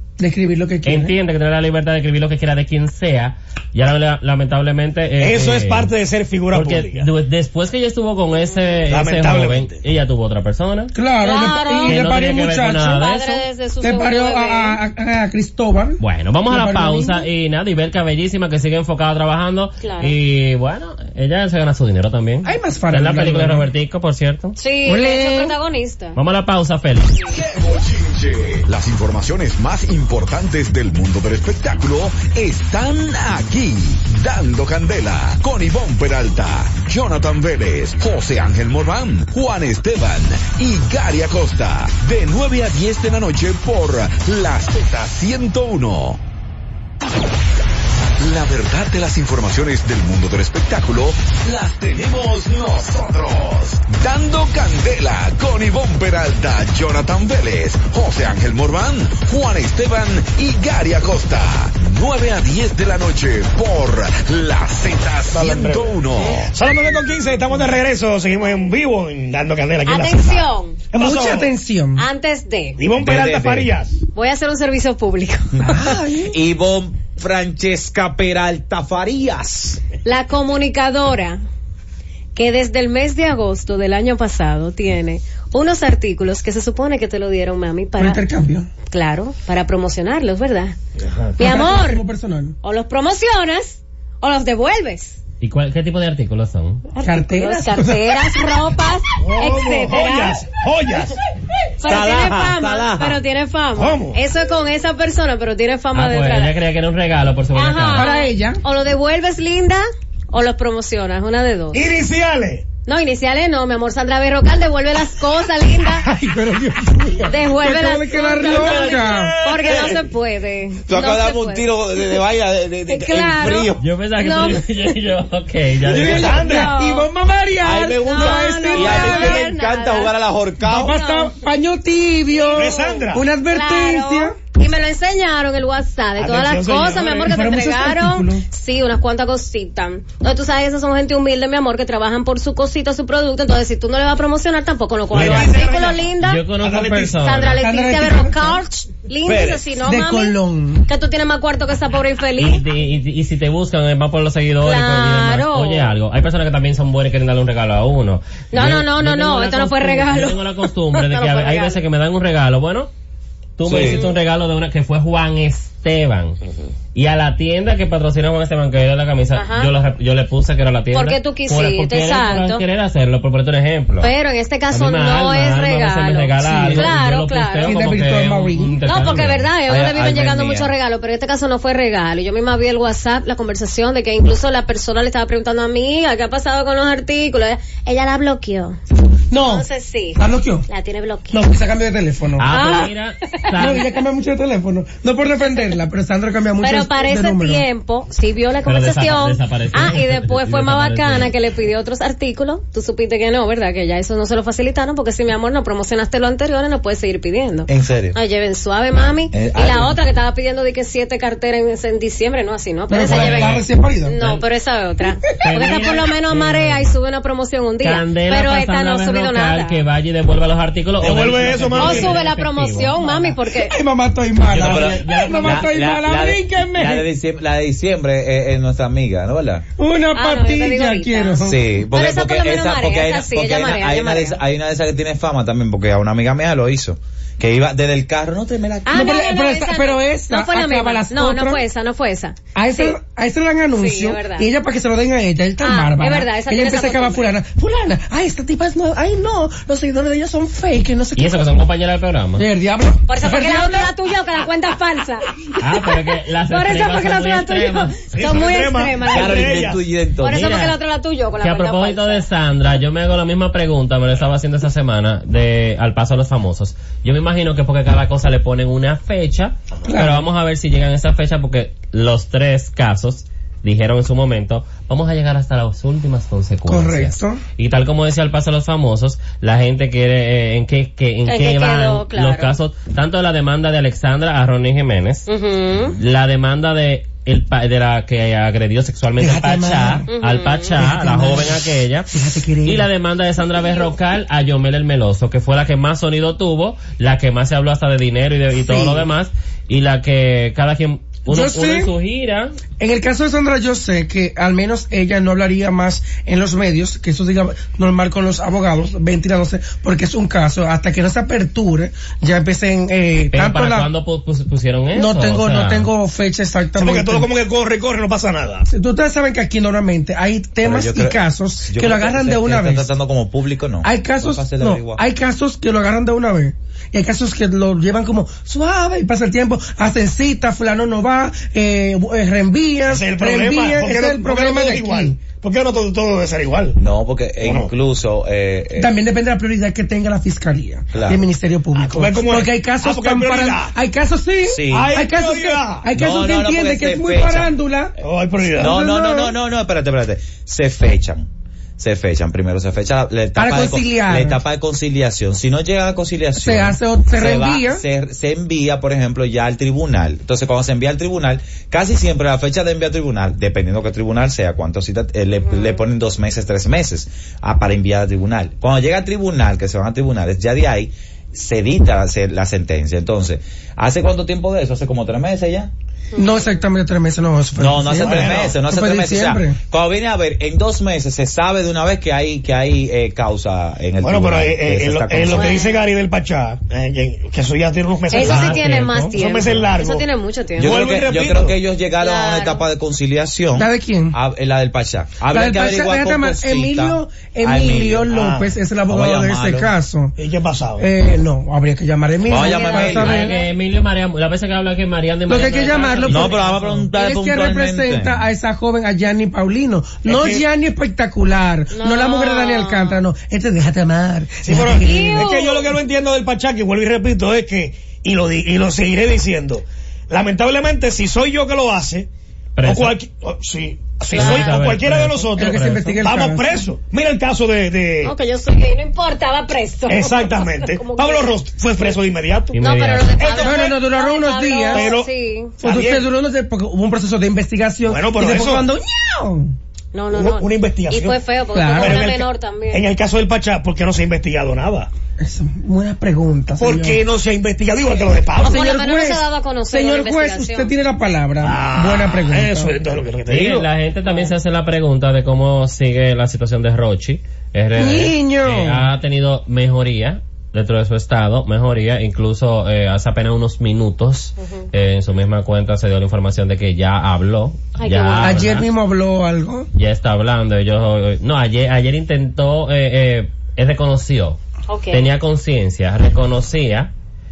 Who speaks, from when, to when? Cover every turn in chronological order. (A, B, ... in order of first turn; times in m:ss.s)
0:00.2-0:01.2 A
0:00.8-0:05.9 B
0:05.2-0:07.1 C
0:06.5-0:10.9 B
0:08.5-0:08.8 D
0:08.9-0:09.8 C
0:10.9-0:13.0 A
0:11.2-0:12.0 D
0:11.8-0:13.4 B
0:12.7-0:14.8 D
0:13.8-0:17.3 A
0:16.0-0:24.6 B
0:19.8-0:20.1 D
0:22.4-0:23.7 A
0:24.6-0:26.2 D
0:24.8-0:25.5 A
0:26.1-0:27.1 B
0:27.3-0:46.2 E
0:48.2-1:06.5 E
1:05.3-1:11.5 C
1:09.8-1:10.8 D
1:10.9-1:12.0 A
1:12.0-1:12.8 D
1:12.8-1:14.0 C
1:12.9-1:13.7 F
1:14.1-1:15.5 D
1:15.5-1:19.8 F
1:15.6-1:16.4 A
1:20.0-1:21.4 D
1:22.3-1:28.2 D
1:28.0-1:28.7 A
1:28.9-1:30.7 D
1:31.0-1:31.3 C
1:31.4-1:32.0 D
1:31.4-1:32.6 A
1:32.6-1:35.2 D
1:35.4-1:36.8 B
1:36.9-1:40.5 D
1:37.0-1:38.6 A
1:39.2-1:41.2 C
1:41.8-1:46.5 D
1:41.8-1:43.2 F
1:43.8-1:44.2 C
1:45.9-1:48.1 B
1:47.5-1:51.8 D
1:47.9-1:48.6 A
1:51.7-1:52.7 C
1:52.8-1:56.1 D
1:56.0-1:59.4 A
1:57.3-2:02.2 D
1:58.5-1:59.8 C
2:00.9-2:03.8 F
2:02.9-2:04.6 D
2:03.8-2:06.4 B
2:05.8-2:09.5 A
2:05.9-2:06.7 C
2:06.1-2:07.1 D
2:07.6-2:11.0 F
2:08.0-2:10.1 D
2:10.6-2:14.3 A
2:10.8-2:11.3 D
2:12.3-2:26.5 D
2:12.5-2:13.2 C
2:16.2-2:17.3 C
2:17.2-2:18.4 A
2:25.1-2:27.3 C
2:25.1-2:25.5 B
2:26.2-2:27.6 B
2:27.2-2:32.6 D
2:27.6-2:28.6 A
2:29.2-2:29.6 F
2:29.7-2:30.9 A
2:32.4-2:42.9 B
2:34.6-2:35.9 D
2:38.5-2:41.8 D
2:43.6-2:46.4 B
2:43.6-2:44.0 F
2:46.9-2:54.1 B
2:49.3-2:49.7 D
2:50.9-2:52.6 D
2:54.0-2:57.8 D
2:54.7-2:59.5 B
2:56.4-2:57.0 A
2:57.6-2:58.8 A
2:58.8-3:08.8 D
2:59.7-3:00.7 F
3:09.3-3:10.7 A
3:09.4-3:11.5 D
3:11.3-3:12.5 A
3:12.4-3:13.9 B
3:12.5-3:13.9 D
3:13.6-3:17.6 A
3:15.4-3:15.8 D
3:16.6-3:39.8 D
3:18.6-3:21.3 B
3:27.7-3:28.2 F
3:29.3-3:30.0 F
3:32.9-3:34.2 A
3:33.0-3:33.6 B
3:34.2-3:34.4 B
3:35.4-3:36.9 B
3:35.4-3:35.8 A
3:37.8-3:43.3 B
3:41.0-3:42.2 C
3:41.8-3:43.8 D
3:43.4-3:47.1 A
3:44.5-3:45.7 B
3:44.5-3:49.6 F
3:49.8-3:51.7 A
3:50.1-3:54.4 D
3:51.4-3:59.1 F
3:58.8-4:03.0 D
3:58.9-4:01.6 A
4:02.5-4:11.6 A
4:03.8-4:04.5 D
4:05.6-4:07.3 D
4:11.2-4:12.4 B
4:12.4-4:13.9 A
4:13.1-4:15.3 D
4:15.6-4:18.3 B
4:16.5-4:22.2 D
4:18.1-4:19.8 C
4:19.0-4:20.7 F
4:20.2-4:20.7 B
4:21.4-4:45.3 B
4:29.8-4:30.2 A
4:36.7-4:37.4 A
4:41.2-4:42.6 D
4:45.3-4:46.0 D
4:46.0-4:52.1 B
4:49.2-4:50.1 A
4:50.1-4:50.7 D
4:50.8-4:52.9 A
4:52.6-5:02.6 B
4:58.6-4:59.1 A
5:01.3-5:01.9 A
5:02.8-5:13.9 A
5:13.3-5:15.9 B
5:14.9-5:17.3 A
5:16.8-5:18.6 C
5:18.7-5:22.9 A
5:20.6-5:25.0 F
5:23.8-5:35.2 A
5:32.8-5:36.8 C
5:36.8-5:38.9 F
5:37.4-5:37.7 C
5:38.8-5:48.0 A
5:40.9-5:41.2 F
5:41.7-5:43.7 C
5:44.4-5:45.0 F
5:44.7-5:45.9 C
5:45.9-5:47.5 F
5:48.0-5:48.8 C
5:48.6-5:49.4 A
5:48.6-6:15.7 F
5:53.4-5:54.4 A
5:56.3-5:57.8 A
6:05.5-6:05.8 D
6:16.1-6:16.5 D
6:16.1-6:19.6 A
6:17.6-6:25.6 F
6:18.0-6:18.6 C
6:24.0-6:30.0 C
6:25.3-6:25.8 D
6:28.1-6:30.8 D
6:28.1-6:29.2 B
6:30.6-6:31.6 C
6:30.6-6:38.1 F
6:32.0-6:32.6 D
6:33.5-6:34.2 A
6:35.3-6:40.2 A
6:38.1-6:38.5 C
6:38.9-6:39.7 F
6:40.2-6:40.9 C
6:40.8-6:43.3 A
6:42.2-6:43.4 F
6:42.3-6:43.5 D
6:43.0-6:46.9 B
6:45.3-6:55.3 A
6:46.1-6:48.2 F
6:50.0-6:50.4 C
6:51.7-6:53.0 D
6:54.4-7:02.1 C
6:54.8-6:55.7 D
7:02.6-7:02.9 B
7:02.6-7:08.1 C
7:04.1-7:06.0 B
7:04.1-7:04.6 D
7:05.4-7:06.7 A
7:08.0-7:11.9 D
7:09.9-7:12.6 C
7:12.5-7:13.2 B
7:12.6-7:15.6 D
7:13.1-7:13.8 C
7:13.4-7:14.9 A
7:14.7-7:16.0 C
7:15.6-7:19.5 A
7:17.8-7:18.7 C
7:19.9-7:22.8 D
7:20.1-7:24.9 C
7:21.5-7:22.1 A
7:25.2-7:27.0 A
7:26.6-7:28.6 C
7:28.4-7:32.8 A
7:28.4-7:30.7 D
7:31.4-7:33.7 C
7:33.3-7:48.7 B
7:34.0-7:34.3 D
7:37.8-7:38.9 A
7:44.4-7:44.7 D
7:47.8-7:48.5 D
7:48.2-7:49.7 A
7:49.7-7:54.4 B
7:54.7-7:55.0 D
7:54.9-7:56.9 B